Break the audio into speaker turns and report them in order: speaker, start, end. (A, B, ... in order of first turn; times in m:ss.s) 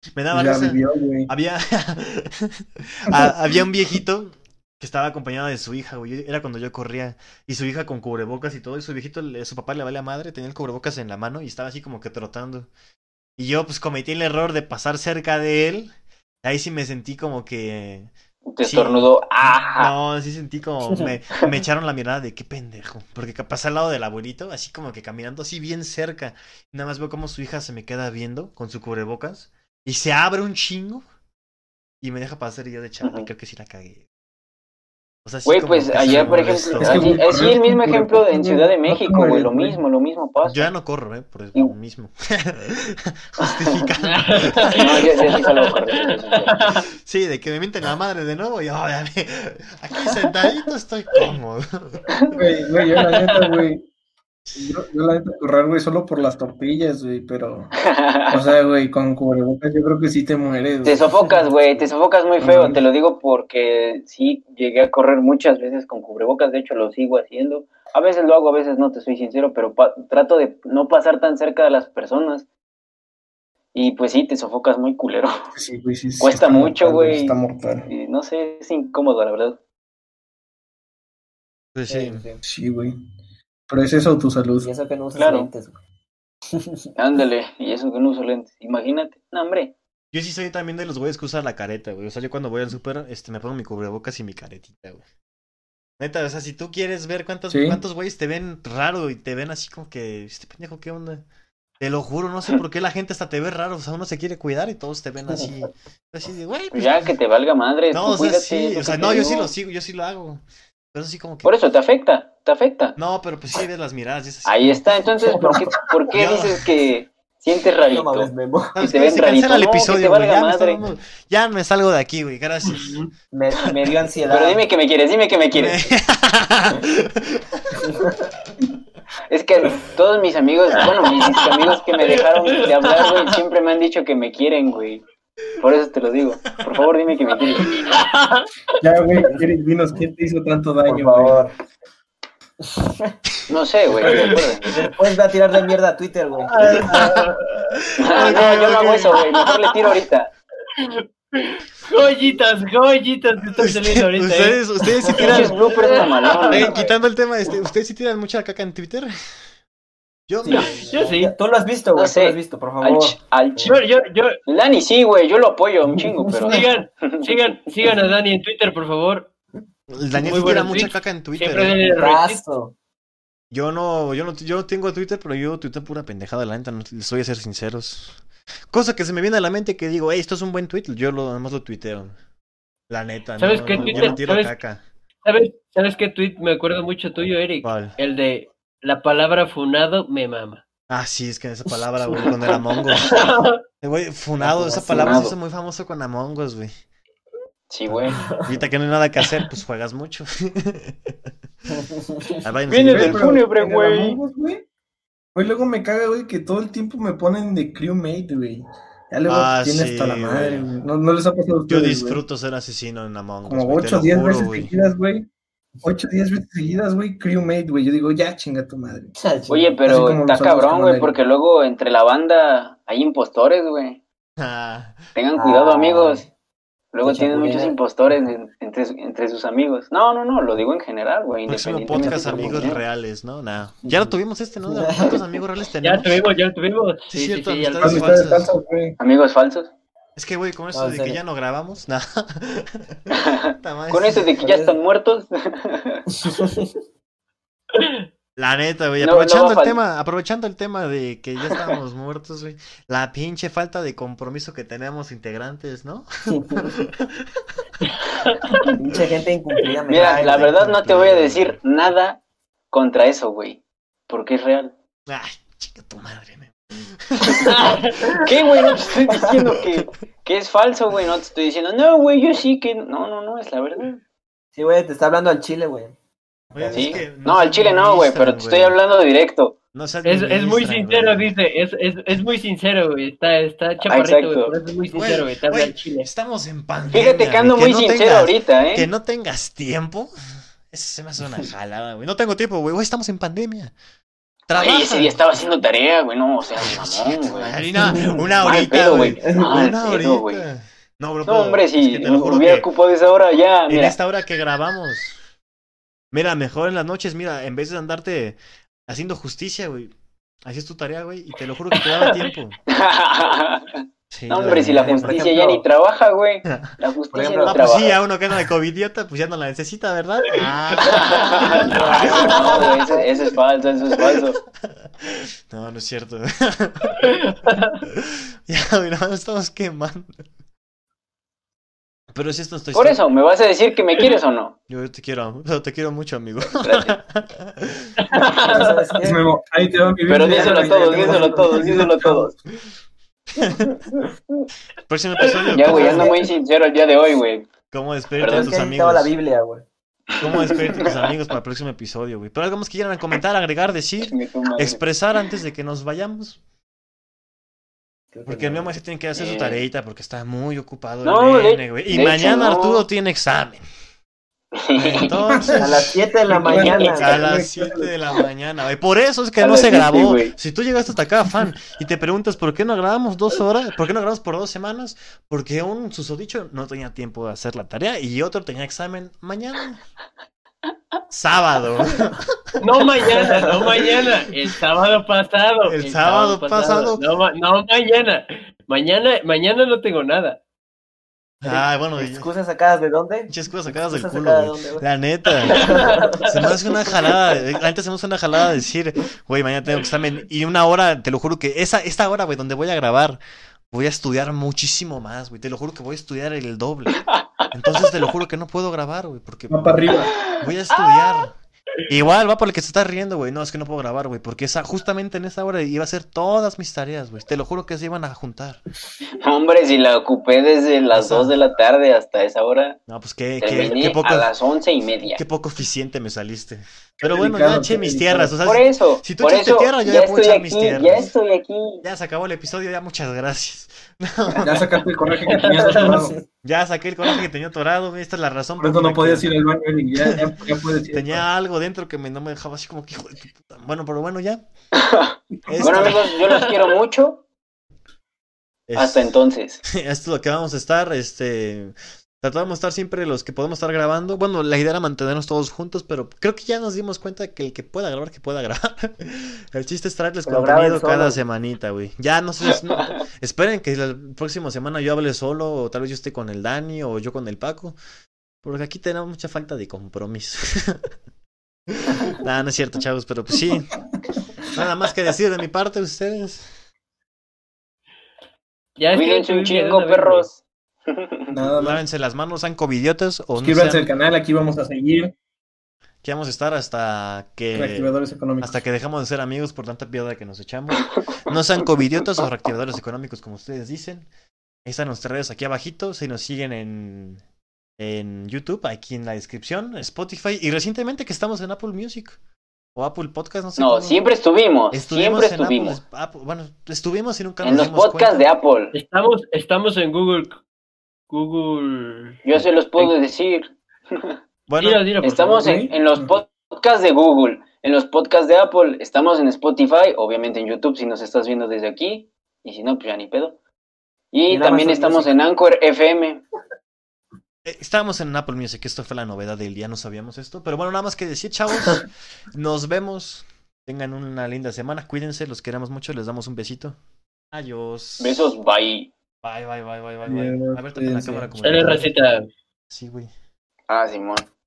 0:00.2-0:12.7 A
0:00.3-0:01.3 B
0:03.1-0:03.3 B
0:13.4-0:15.9 A
0:16.4-0:18.1 A
0:18.5-0:19.9 C
0:18.6-0:31.0 A
0:32.0-0:34.0 A
0:35.2-0:37.2 A
0:35.5-0:40.7 C
0:36.8-0:39.8 B
0:40.4-0:45.1 A
0:43.4-0:43.9 C
0:44.1-0:46.8 D
0:44.6-0:46.6 C
0:47.0-0:52.2 A
0:52.4-0:53.9 B
0:53.0-0:53.6 D
0:54.6-0:57.7 B
0:57.8-0:58.4 C
0:58.3-1:01.8 B
1:00.8-1:12.5 C
1:02.4-1:02.8 B
1:13.7-1:15.5 C
1:15.5-1:17.9 B
1:16.2-1:17.4 C
1:17.9-1:19.6 C
1:21.8-1:22.3 A
1:21.9-1:22.4 E
1:22.4-1:23.0 B
1:23.7-1:24.7 B
1:24.6-1:25.8 E
1:25.2-1:25.5 C
1:27.0-1:29.7 C
1:30.1-1:35.0 A
1:36.0-1:41.2 A
1:37.5-1:37.8 B
1:41.8-1:47.2 A
1:46.7-1:49.5 C
1:47.9-1:51.5 A
1:51.4-1:53.0 C
1:53.0-1:54.7 A
1:54.4-2:00.8 C
1:55.4-1:55.6 E
1:56.1-1:56.7 A
1:57.9-1:58.8 E
1:58.8-2:03.0 A
2:02.6-2:03.1 D
2:03.3-2:04.6 E
2:04.3-2:05.9 C
2:05.5-2:07.8 A
2:07.8-2:08.3 E
2:09.3-2:15.0 C
2:12.1-2:13.2 D
2:15.6-2:17.8 C
2:17.8-2:18.5 D
2:18.8-2:21.4 B
2:20.9-2:21.6 E
2:22.6-2:23.2 E
2:23.5-2:24.8 C
2:24.0-2:26.6 E
2:26.5-2:27.8 D
2:26.7-2:27.3 A
2:28.0-2:30.3 C
2:28.1-2:29.5 A
2:30.8-2:36.8 D
2:33.6-2:35.6 A
2:35.2-2:36.7 C
2:36.5-2:39.1 A
2:40.3-2:41.0 A
2:40.5-2:43.7 E
2:40.5-2:41.3 D
2:42.0-2:43.8 C
2:43.6-2:44.4 D
2:44.5-2:47.4 C
2:46.2-2:46.6 E
2:46.4-2:49.3 D
2:49.9-2:51.8 A
2:50.2-2:52.4 D
2:52.0-2:52.8 E
2:53.5-3:02.2 A
3:02.9-3:04.8 A
3:03.4-3:04.6 D
3:03.8-3:04.0 C
3:05.2-3:10.6 D
3:07.6-3:08.0 A
3:10.9-3:13.3 A
3:13.1-3:13.6 D
3:13.8-3:16.7 A
3:14.4-3:15.3 E
3:14.8-3:15.3 C
3:17.7-3:18.2 C
3:17.9-3:21.1 A
3:18.1-3:18.5 E
3:21.8-3:22.4 E
3:22.4-3:23.3 A
3:22.7-3:24.2 C
3:22.8-3:24.6 B
3:25.4-3:32.2 B
3:29.3-3:30.7 A
3:31.7-3:34.7 A
3:33.5-3:35.3 B
3:35.8-3:39.1 B
3:39.2-3:39.8 E
3:39.5-3:44.0 C
3:39.9-3:41.2 B
3:44.4-3:45.0 A
3:45.2-3:46.2 C
3:45.4-3:46.3 E
3:46.9-3:52.8 C
3:47.0-3:47.8 E
3:51.5-3:56.2 A
3:51.9-3:52.8 E
3:53.8-3:54.1 E
3:54.7-3:55.2 E
3:55.8-3:58.3 D
3:57.1-3:58.5 A
3:57.8-3:59.0 B
3:59.0-3:59.7 C
4:00.2-4:04.3 A
4:00.7-4:01.2 E
4:03.1-4:06.0 C
4:04.4-4:04.8 E
4:06.2-4:06.7 E
4:07.8-4:08.0 D
4:08.4-4:17.3 A
4:09.0-4:09.8 C
4:16.3-4:16.7 E
4:18.2-4:18.6 D
4:18.7-4:20.6 E
4:19.9-4:22.2 C
4:20.0-4:21.6 A
4:22.7-4:24.7 C
4:25.1-4:27.6 A
4:27.5-4:28.1 D
4:28.2-4:34.0 C
4:28.8-4:29.9 A
4:34.6-4:36.0 E
4:36.5-4:38.8 A
4:36.6-4:37.0 E
4:36.7-4:39.6 C
4:39.7-4:41.3 A
4:40.0-4:46.1 D
4:43.9-4:44.5 C
4:44.9-4:50.1 A
4:46.9-4:48.9 C
4:50.7-4:53.7 A
4:54.5-4:55.2 A
4:54.5-4:57.6 C
4:56.6-5:02.7 A
4:57.9-4:58.2 E
4:58.4-5:00.4 C
4:59.2-4:59.5 E
5:01.3-5:04.0 C
5:03.7-5:05.2 A
5:06.1-5:08.4 A
5:08.9-5:09.9 A
5:10.4-5:12.6 A
5:11.7-5:12.2 C
5:12.7-5:18.0 C
5:14.1-5:15.3 A
5:14.4-5:15.6 E
5:16.5-5:16.8 A
5:17.1-5:17.6 E
5:17.4-5:22.7 A
5:20.8-5:24.4 C
5:21.4-5:23.1 E
5:24.0-5:24.2 A
5:25.0-5:27.1 A
5:27.0-5:27.8 D
5:27.9-5:30.1 A
5:32.1-5:33.0 A
5:32.7-5:34.6 C
5:34.7-5:38.0 A
5:36.6-5:37.0 C
5:38.0-5:38.8 D
5:38.4-5:39.3 E
5:39.0-5:42.3 B
5:40.1-5:42.3 C
5:40.2-5:42.1 E
5:43.4-5:43.7 A
5:43.7-5:44.5 C
5:44.9-5:46.2 A
5:45.5-5:47.5 C
5:45.7-5:46.3 E
5:47.7-5:49.1 A
5:48.2-5:48.6 C
5:48.2-5:49.6 E
5:50.1-5:51.1 C
5:50.2-5:56.4 A
5:54.0-5:54.8 C
5:58.1-5:58.7 E
5:58.3-6:03.6 A
5:59.1-5:59.6 C
6:01.0-6:02.8 C
6:04.5-6:05.1 C
6:04.8-6:05.7 A
6:05.3-6:07.9 B
6:05.6-6:07.3 E
6:06.8-6:19.8 A
6:09.4-6:10.3 C
6:21.1-6:22.4 A
6:22.6-6:30.4 D
6:23.2-6:23.6 E
6:25.7-6:27.0 A
6:31.4-6:34.8 E
6:31.4-6:32.3 A
6:33.3-6:43.2 A
6:35.5-6:36.4 E
6:35.8-6:36.2 D
6:43.7-6:51.4 A
6:47.1-6:47.9 C
6:49.5-6:50.2 B
6:50.1-6:51.3 C
6:51.9-6:58.6 A
6:59.2-7:02.8 C
7:00.9-7:01.4 A
7:02.9-7:04.3 A
7:03.4-7:05.2 C
7:05.0-7:11.1 A
7:07.0-7:08.4 B
7:08.4-7:11.8 C
7:11.8-7:14.8 A
7:14.4-7:16.2 B
7:15.3-7:15.9 D
7:15.8-7:16.2 E
7:16.4-7:19.3 A
7:18.6-7:21.3 B
7:20.0-7:20.3 A
7:20.9-7:24.4 A
7:24.8-7:27.2 C
7:25.5-7:26.1 A
7:25.6-7:25.9 B
7:28.7-7:29.1 A
7:28.8-7:29.6 C
7:29.6-7:47.8 A
7:40.3-7:41.2 E
7:48.4-7:50.8 A
7:51.7-7:53.7 A
7:54.5-7:56.5 A
7:58.8-8:00.3 D
7:58.9-8:01.3 C
8:01.3-8:01.8 B
8:01.6-8:03.9 A
8:03.4-8:05.1 B
8:06.0-8:14.1 A
8:07.5-8:08.6 B
8:14.6-8:17.2 A
8:17.8-8:22.2 A
8:22.8-8:24.0 A
8:23.6-8:25.8 C
8:24.7-8:28.3 A
8:27.4-8:28.7 C
8:28.7-8:30.4 D
8:31.1-8:32.2 D
8:32.2-8:34.2 C
8:34.5-8:34.8 A
8:34.6-8:35.5 D
8:35.0-8:43.4 C
8:35.4-8:36.1 B
8:44.1-8:46.2 C
8:44.3-8:45.1 E
8:47.4-8:56.8 A
8:57.3-8:58.4 A
8:58.0-8:58.9 C
8:59.2-9:01.9 A
9:00.0-9:01.3 B
9:01.4-9:02.3 D
9:02.7-9:03.1 A
9:03.7-9:04.3 C